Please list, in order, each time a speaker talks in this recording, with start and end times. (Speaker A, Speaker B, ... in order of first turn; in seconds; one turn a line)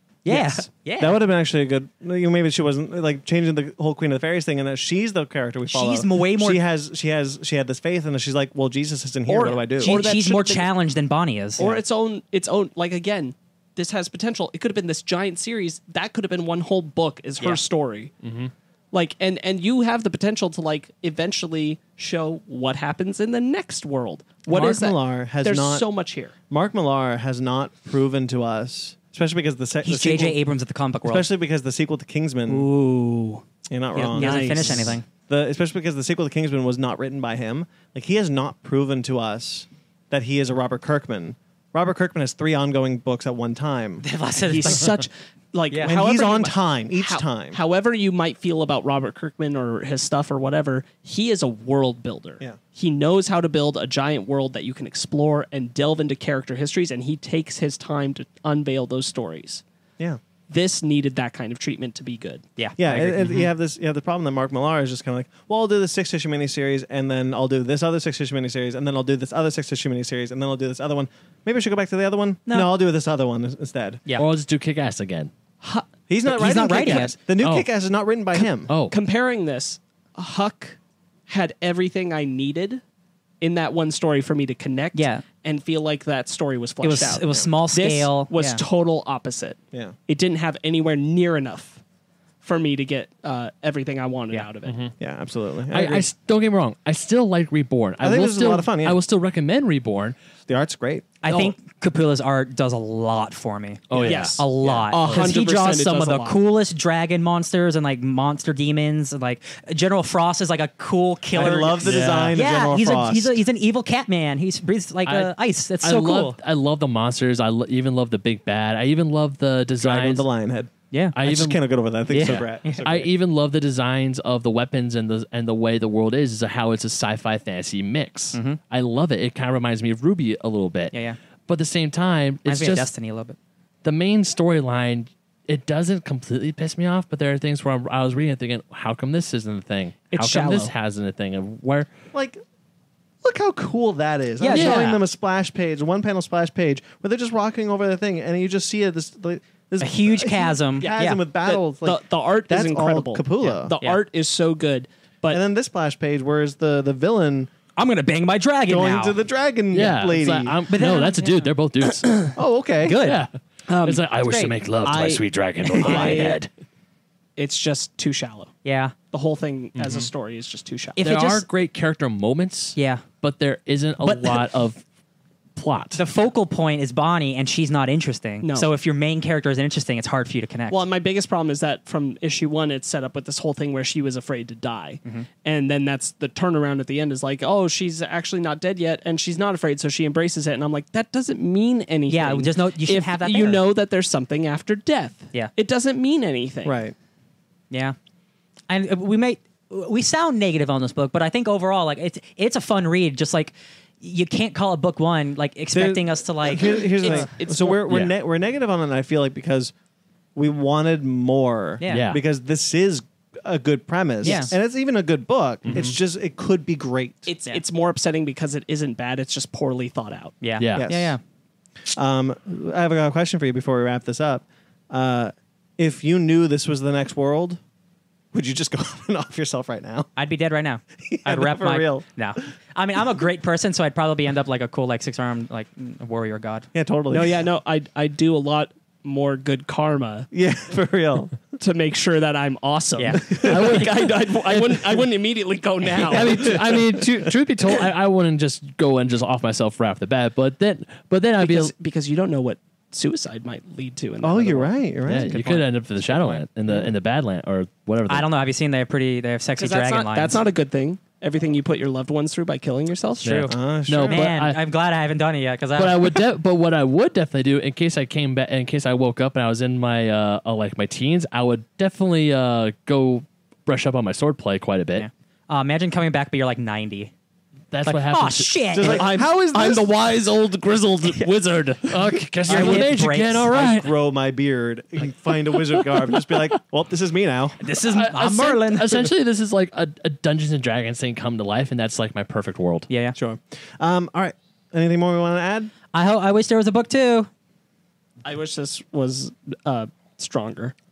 Speaker A: 0.2-1.2
Speaker B: 0.3-0.7
Speaker C: 1.0-10.0
Speaker A: 5.7-6.6
Speaker B: 9.3-10.7
Speaker A: 9.5-11.7
Speaker B: 11.6-18.1
Speaker D: 18.2-18.5
Speaker B: 18.9-26.4
Speaker C: 24.5-25.9
Speaker C: 26.5-30.4
Speaker A: 29.8-31.3
Speaker C: 31.0-32.7
Speaker B: 32.5-33.4
Speaker C: 33.7-44.0
Speaker A: 33.9-35.1
Speaker B: 34.1-35.0
Speaker A: 44.0-44.9
Speaker B: 44.4-59.6
Speaker C: 45.7-47.6
Speaker B: 60.5-62.4
Speaker A: 62.6-63.5
Speaker C: 62.8-74.0
Speaker D: 74.2-75.3
Speaker B: 75.6-77.1
Speaker C: 76.1-78.7
Speaker A: 76.3-77.2
Speaker D: 77.4-77.7
Speaker B: 78.3-82.8
Speaker D: 78.7-79.0
Speaker B: 83.4-91.8
Speaker A: 84.9-85.2
Speaker A: 86.8-88.6
Speaker B: 92.4-94.9
Speaker D: 94.7-94.9
Speaker C: 95.0-96.1
Speaker D: 95.7-100.2
Speaker C: 98.0-99.0
Speaker C: 100.5-101.1
Speaker A: 101.2-116.4
Speaker D: 101.3-101.5
Speaker D: 103.9-105.4
Speaker B: 104.0-106.4
Speaker C: 111.3-113.4
Speaker D: 111.8-112.3
Speaker D: 115.1-120.3
Speaker C: 119.8-123.1
Speaker D: 121.1-130.9
Speaker A: 122.1-122.8
Speaker A: 128.3-128.6
Speaker A: 130.9-131.2
Speaker D: 131.5-132.9
Speaker A: 132.4-133.4
Speaker D: 133.8-141.9
Speaker B: 140.1-140.7
Speaker C: 142.1-142.4
Speaker C: 143.2-153.7
Speaker A: 144.4-145.0
Speaker D: 144.5-144.9
Speaker A: 149.8-151.2
Speaker B: 150.8-155.4
Speaker A: 153.4-154.0
Speaker C: 155.3-157.5
Speaker A: 157.8-159.2
Speaker C: 158.7-160.6
Speaker D: 159.7-162.2
Speaker A: 160.7-161.5
Speaker C: 162.3-163.0
Speaker A: 162.8-164.6
Speaker D: 162.9-163.3
Speaker D: 163.8-166.5
Speaker B: 164.8-165.2
Speaker A: 165.7-166.4
Speaker B: 165.8-166.4
Speaker B: 167.4-168.5
Speaker A: 168.6-168.9
Speaker B: 169.1-171.0
Speaker D: 169.8-170.1
Speaker A: 171.0-171.4
Speaker D: 171.0-174.8
Speaker A: 172.8-173.1
Speaker A: 174.0-174.4
Speaker D: 175.6-176.0
Speaker A: 175.9-180.8
Speaker B: 178.4-178.7
Speaker B: 180.7-196.8
Speaker A: 192.1-193.6
Speaker C: 196.6-196.9
Speaker A: 197.7-198.0
Speaker A: 198.7-207.3
Speaker C: 205.7-209.7
Speaker B: 207.0-207.8
Speaker D: 207.9-208.1
Speaker C: 210.4-217.3
Speaker A: 211.8-212.1
Speaker D: 211.9-212.2
Speaker B: 214.2-214.5
Speaker A: 214.2-214.5
Speaker D: 215.7-216.0
Speaker B: 217.3-220.3
Speaker A: 220.4-221.2
Speaker D: 220.6-220.9
Speaker C: 220.8-221.2
Speaker C: 221.9-227.6
Speaker C: 228.3-230.1
Speaker A: 230.2-236.7
Speaker C: 231.1-232.1
Speaker C: 236.7-237.4
Speaker B: 237.1-240.3
Speaker C: 240.3-241.5
Speaker B: 241.6-246.6
Speaker A: 243.0-243.2
Speaker C: 243.1-243.8
Speaker D: 243.4-245.0
Speaker D: 246.0-251.7
Speaker C: 246.1-247.2
Speaker B: 251.4-254.8
Speaker C: 254.2-256.9
Speaker D: 255.1-258.3
Speaker A: 258.1-260.4
Speaker B: 259.6-263.2
Speaker D: 263.2-264.6
Speaker A: 263.2-263.5
Speaker C: 263.5-264.3
Speaker A: 264.1-266.1
Speaker D: 265.8-275.1
Speaker A: 274.9-277.1
Speaker D: 277.7-278.9
Speaker A: 277.9-279.1
Speaker C: 278.7-279.9
Speaker B: 278.8-281.9
Speaker D: 280.8-283.9
Speaker A: 281.0-281.3
Speaker A: 282.4-283.6
Speaker C: 282.5-282.8
Speaker C: 283.5-287.6
Speaker D: 285.4-286.4
Speaker A: 287.6-289.1
Speaker D: 287.9-292.9
Speaker A: 292.9-293.1
Speaker C: 293.1-295.7
Speaker A: 295.9-297.3
Speaker B: 298.2-300.8